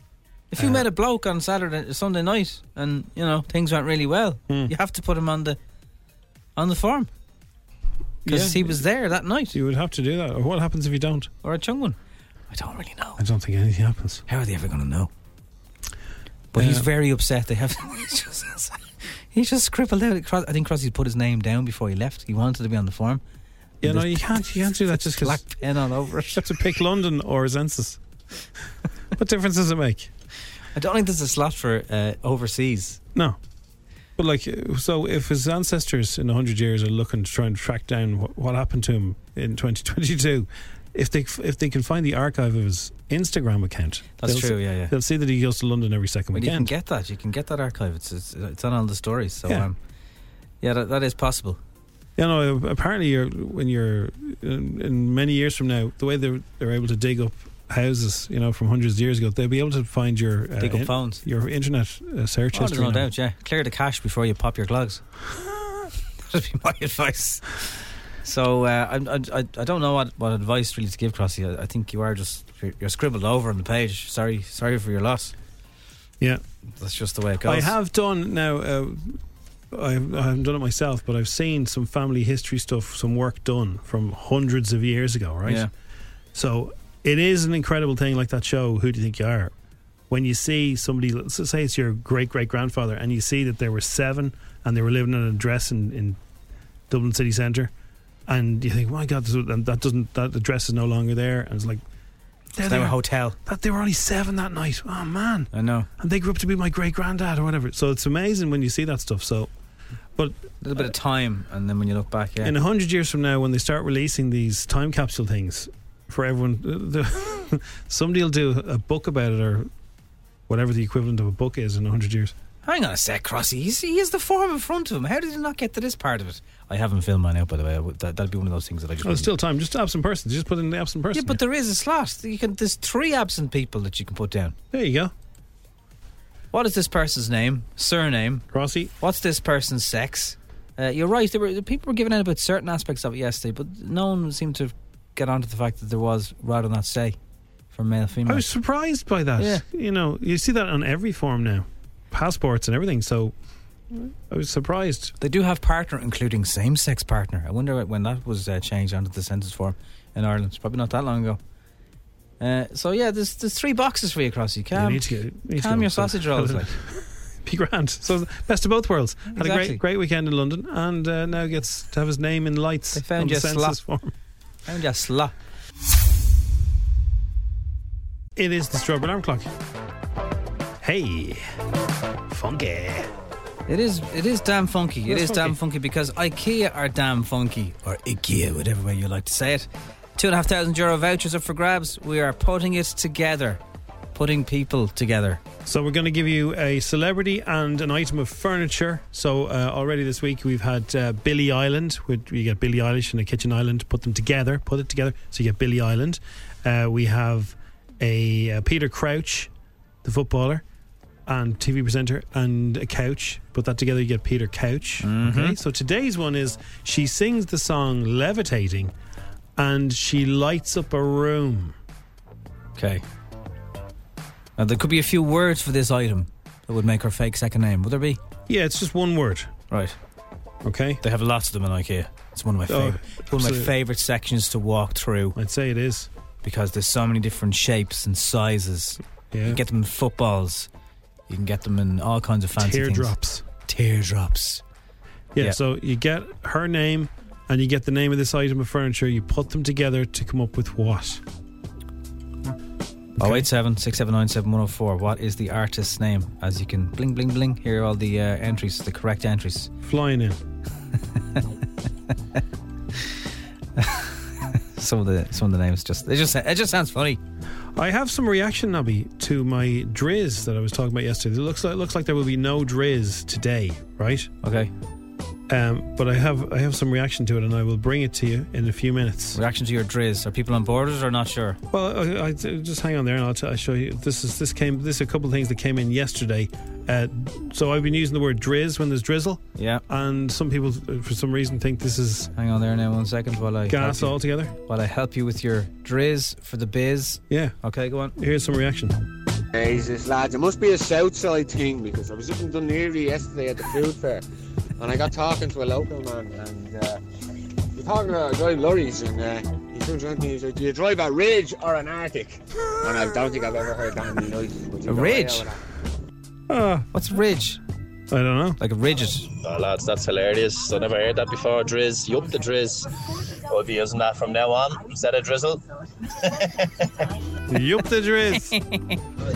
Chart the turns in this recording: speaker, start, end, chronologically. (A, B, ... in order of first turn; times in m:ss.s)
0:00.5-0:05.6 A
0:00.6-0:00.8 B
0:06.6-0:07.1 A
0:08.2-0:08.8 B
0:08.3-0:09.6 A
0:09.5-0:11.3 B
0:11.4-0:12.0 A
0:12.5-0:13.2 A
0:13.2-0:14.2 B
0:14.3-0:15.1 A
0:16.5-0:18.8 A
0:16.5-0:16.9 B
0:19.3-0:23.2 A
0:23.8-0:25.4 B
0:23.8-0:26.4 A
0:26.3-0:28.0 B
0:29.2-0:30.1 B
0:30.7-0:33.0 A
0:34.2-0:46.7 B
0:44.2-0:44.9 A
0:46.3-0:49.8 A
0:50.6-0:51.6 A
0:52.2-1:03.1 B
1:00.6-1:01.2 A
1:02.5-1:05.0 A
1:06.3-1:07.4 A
1:08.2-1:15.3 A
1:16.8-1:17.7 A
1:17.4-1:19.2 B
1:19.7-1:25.7 B
1:26.3-1:29.5 B
1:30.1-1:36.2 B
1:36.9-1:37.7 B
1:38.3-1:41.8 B
1:42.5-1:49.5 B
1:42.6-1:43.4 A
1:45.5-1:45.9 A
1:50.2-1:50.9 B
1:50.6-1:52.5 A
1:52.4-1:59.7 B
2:00.5-2:02.3 B
2:02.6-2:09.3 A
2:09.0-2:11.4 B
2:11.1-2:14.6 A
2:14.7-2:15.1 B
2:16.5-2:18.4 A
2:18.5-2:18.9 B
2:19.0-2:27.2 A
2:27.7-2:28.4 A
2:28.2-2:33.3 B
2:29.4-2:29.6 A
2:33.9-2:35.1 B
2:35.2-2:41.4 A
2:42.4-2:46.7 A
2:44.7-2:54.1 B
2:49.3-2:49.8 A
2:52.9-2:53.8 A
2:54.6-2:55.3 A
2:58.4-2:59.5 B
3:00.8-3:01.4 B
3:02.3-3:03.1 B
3:03.7-3:13.6 A
3:05.1-3:05.6 B
3:14.1-3:15.4 A
3:15.6-3:29.5 B
3:30.0-3:30.6 B
3:31.3-3:38.9 B
3:35.0-3:35.6 A
3:39.6-3:41.8 B
3:42.8-3:43.0 A
3:44.6-3:48.2 A
3:48.5-3:49.5 B
3:49.7-3:50.0 A
3:50.6-3:51.0 B
3:51.0-3:55.3 A
3:52.7-3:53.7 B
3:55.3-3:56.1 B
3:56.4-4:00.7 A
3:59.3-3:59.6 B
4:01.3-4:04.6 A
4:02.6-4:03.4 B
4:05.3-4:11.2 B
4:13.2-4:13.5 B
4:13.2-4:19.7 A
4:19.8-4:20.4 B
4:23.8-4:24.2 A
4:24.7-4:27.2 A
4:27.8-4:34.3 B
4:34.4-4:34.7 A
4:35.5-4:39.4 B
4:39.3-4:41.6 A
4:41.7-4:52.3 B
4:49.6-4:49.8 A
4:52.4-4:58.1 A
4:53.7-4:54.5 B
4:57.3-4:57.5 B
4:58.2-4:59.0 B
4:59.5-5:04.2 C
5:04.8-5:07.0 C
5:07.7-5:15.6 C
5:14.9-5:15.4 A
5:16.5-5:16.9 B
5:16.9-5:17.6 A
5:18.1-5:18.6 B
5:18.6-5:19.3 A
5:19.3-5:22.9 D
5:23.5-5:25.6 D
5:26.2-5:26.9 D
5:27.5-5:28.5 B
5:28.5-5:29.0 A